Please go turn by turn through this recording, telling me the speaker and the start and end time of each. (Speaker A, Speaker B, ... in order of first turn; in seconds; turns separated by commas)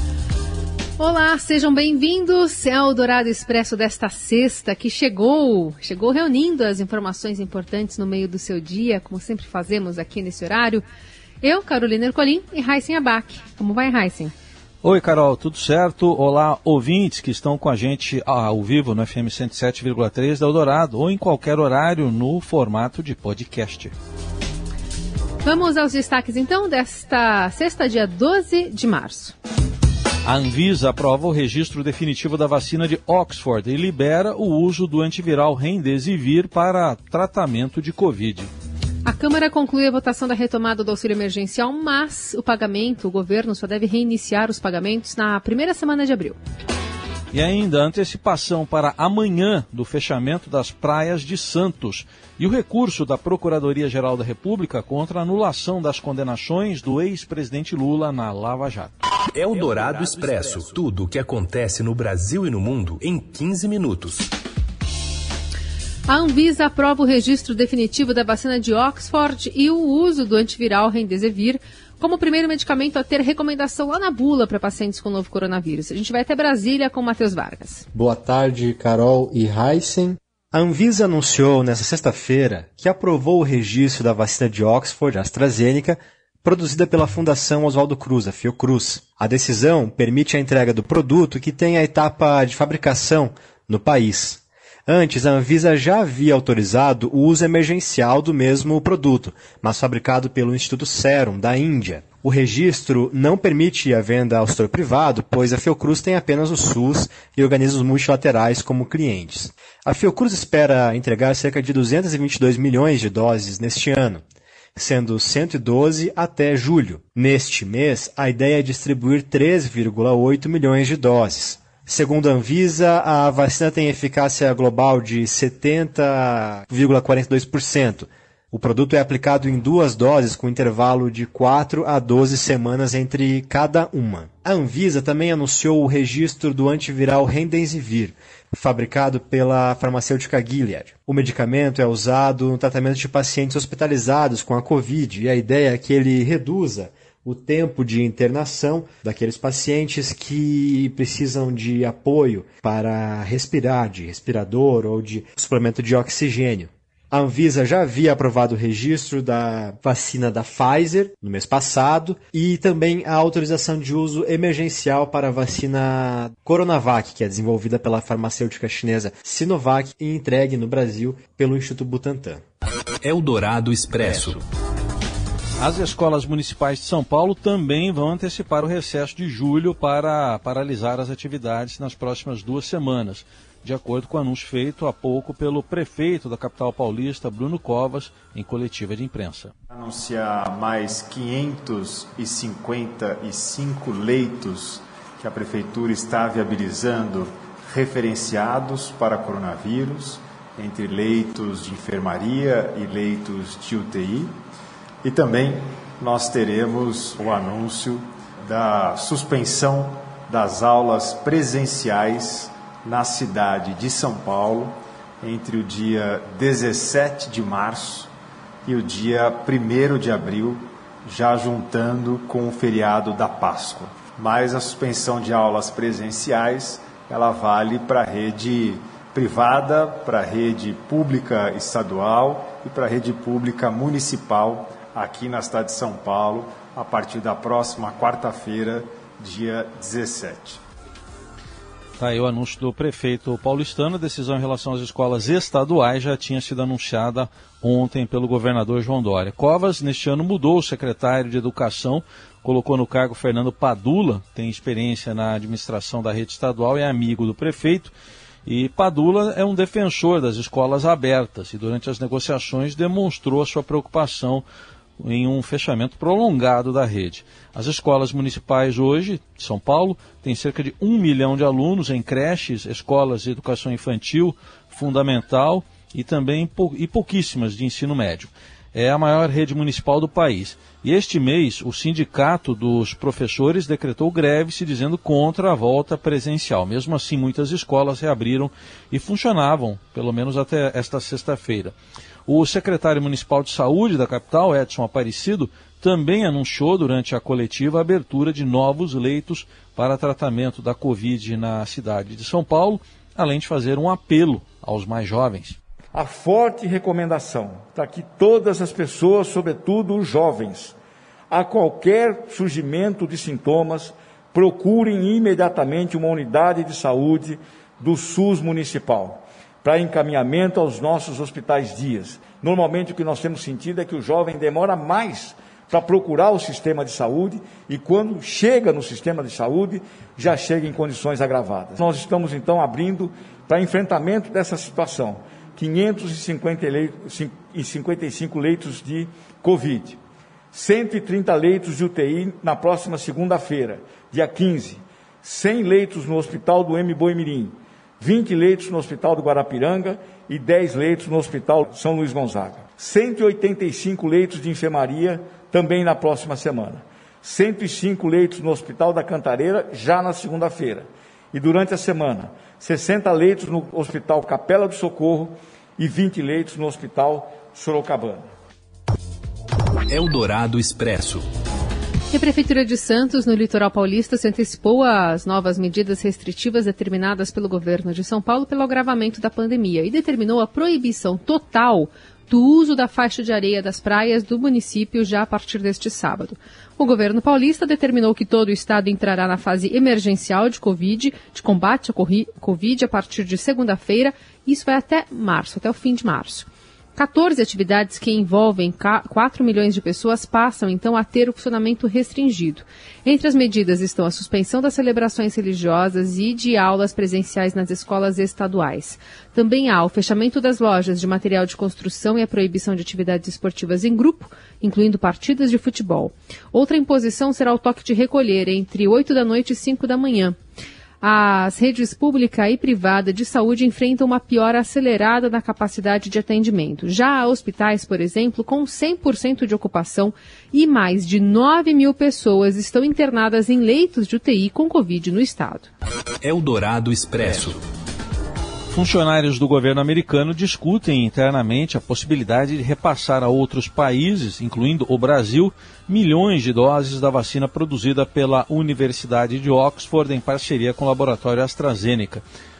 Speaker A: 1.0-10.8, Speaker A: 11.4-14.3, Speaker B: 14.8-23.9, Speaker A: 25.4-29.4, Speaker B: 30.2-38.5, Speaker A: 39.0-46.4, Speaker B: 47.3-58.9, Speaker C: 59.3-64.3, Speaker A: 66.1-77.9, Speaker D: 77.9-114.2, Speaker D: 114.8-172.4, Speaker C: 173.0-174.4, Speaker B: 175.6-189.5, Speaker D: 189.8-194.7, Speaker E: 192.0-192.3, Speaker E: 193.5-194.3, Speaker E: 195.2-196.1, Speaker D: 195.5-197.2, Speaker E: 197.7-200.0, Speaker D: 198.3-200.2, Speaker E: 200.6-201.3, Speaker D: 200.9-204.2, Speaker E: 202.3-202.7, Speaker E: 203.5-204.3, Speaker E: 205.0-208.0, Speaker D: 206.7-207.9, Speaker E: 208.5-212.2, Speaker D: 208.7-209.8, Speaker D: 210.6-212.4, Speaker E: 212.8-218.0, Speaker D: 213.0-214.6, Speaker D: 215.6-216.6, Speaker D: 217.5-217.8, Speaker E: 218.7-220.4, Speaker D: 218.9-219.3, Speaker D: 221.1-223.8, Speaker E: 222.2-222.6, Speaker E: 223.6-226.6, Speaker D: 224.5-228.0, Speaker E: 227.2-228.6, Speaker E: 229.2-229.4, Speaker D: 229.4-230.7, Speaker E: 230.9-231.7, Speaker D: 231.3-240.6, Speaker E: 232.8-233.6, Speaker B: 242.0-257.9, Speaker B: 258.4-264.4, Speaker B: 265.0-305.6, Speaker F: 305.9-310.7, Speaker F: 311.3-340.0, Speaker F: 340.5-368.3, Speaker C: 369.9-371.2, Speaker A: 372.1-420.4, Speaker A: 421.0-435.7, Speaker C: 436.2-437.6, Speaker B: 438.7-452.2